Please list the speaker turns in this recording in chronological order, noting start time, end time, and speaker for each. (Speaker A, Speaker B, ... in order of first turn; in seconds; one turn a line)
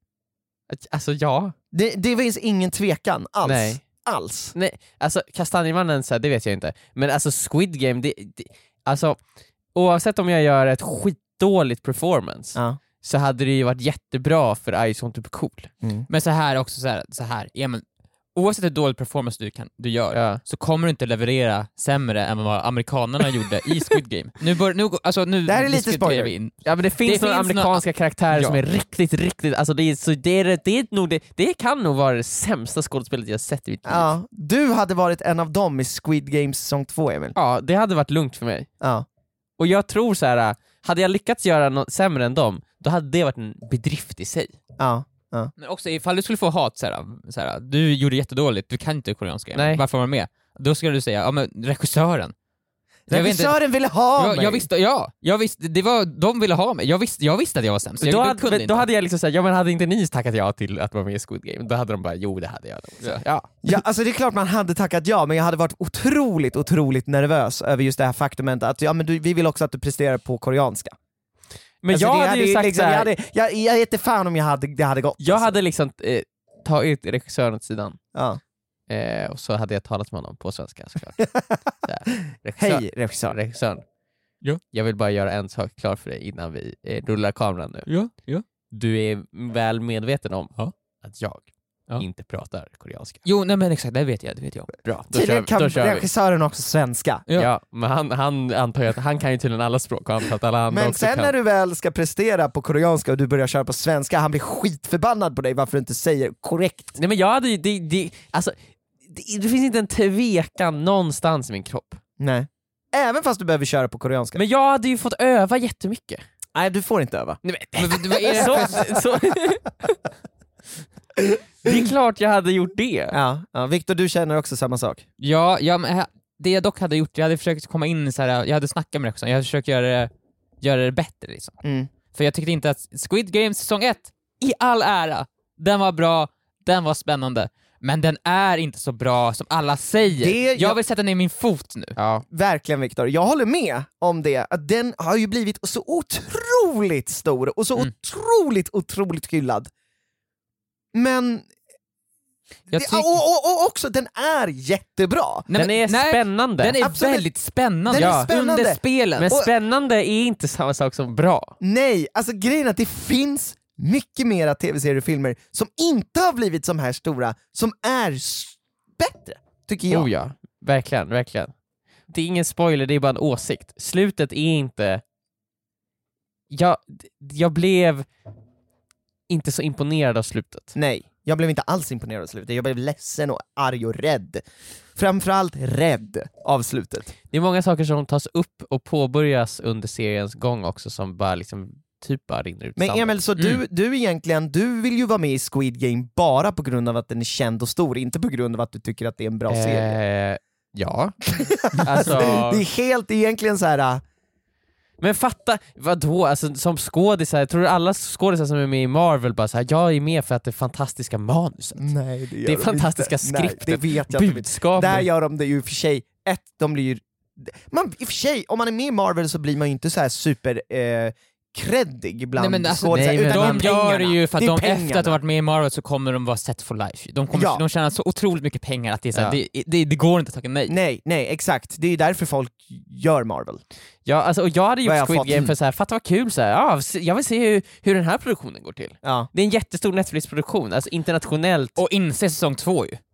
Speaker A: 0.7-1.5
Speaker B: 1.7-4.5
Speaker A: 3.4-15.7
Speaker B: 12.6-12.8
Speaker B: 15.8-16.1
Speaker C: 16.1-28.6
Speaker A: 20.1-20.4
Speaker B: 25.4-26.3
Speaker A: 26.6-34.1
Speaker B: 33.8-37.4
Speaker A: 37.4-38.7
Speaker B: 38.8-39.0
Speaker A: 39.6-44.5
Speaker B: 44.8-45.5
Speaker C: 45.6-52.3
Speaker A: 49.5-49.8
Speaker C: 53.1-53.6
Speaker B: 53.1-54.7
Speaker C: 54.1-58.9
Speaker A: 58.0-63.7
Speaker B: 63.6-71.0
Speaker A: 71.8-73.1
Speaker B: 71.9-75.5
Speaker A: 75.2-78.0
Speaker B: 78.1-78.4
Speaker A: 78.9-83.8
Speaker B: 82.6-83.4
Speaker A: 84.6-88.1
Speaker C: 87.9-88.4
Speaker A: 88.7-93.2
Speaker C: 93.2-94.7
Speaker A: 94.8-96.1
Speaker B: 95.1-97.2
Speaker C: 97.3-97.5
Speaker A: 97.3-101.3
Speaker B: 100.7-107.0
Speaker A: 107.0-112.0
Speaker B: 112.2-114.4
Speaker A: 114.3-116.2
Speaker B: 116.5-117.4
Speaker A: 117.4-119.9
Speaker C: 117.8-118.9
Speaker B: 118.3-119.0
Speaker B: 121.2-121.8
Speaker A: 121.6-123.2
Speaker B: 123.1-125.0
Speaker C: 125.2-131.6
Speaker B: 131.6-131.9
Speaker C: 132.1-142.0
Speaker B: 140.2-140.8
Speaker A: 141.9-142.2
Speaker B: 142.3-149.7
Speaker B: 150.9-151.5
Speaker B: 152.7-155.5
Speaker C: 152.7-153.1
Speaker C: 155.5-159.3
Speaker A: 155.5-156.8
Speaker B: 156.8-157.3
Speaker B: 157.8-159.5
Speaker A: 159.2-161.6
Speaker B: 161.6-170.1
Speaker A: 169.9-171.6
Speaker A: 172.1-175.0
Speaker A: 176.5-178.1
Speaker A: 179.3-180.7
Speaker B: 180.7-184.4
Speaker B: 184.9-187.1
Speaker A: 187.3-193.2
Speaker B: 192.8-200.0
Speaker C: 193.3-193.6
Speaker A: 199.5-202.6
Speaker B: 201.3-204.0
Speaker A: 205.0-215.1
Speaker B: 211.8-225.2
Speaker C: 222.4-230.7
Speaker A: 222.9-223.7
Speaker B: 227.3-227.6
Speaker B: 230.7-233.6
Speaker A: 234.0-241.8
Speaker B: 234.8-235.5
Speaker B: 239.0-239.3
Speaker C: 241.8-243.0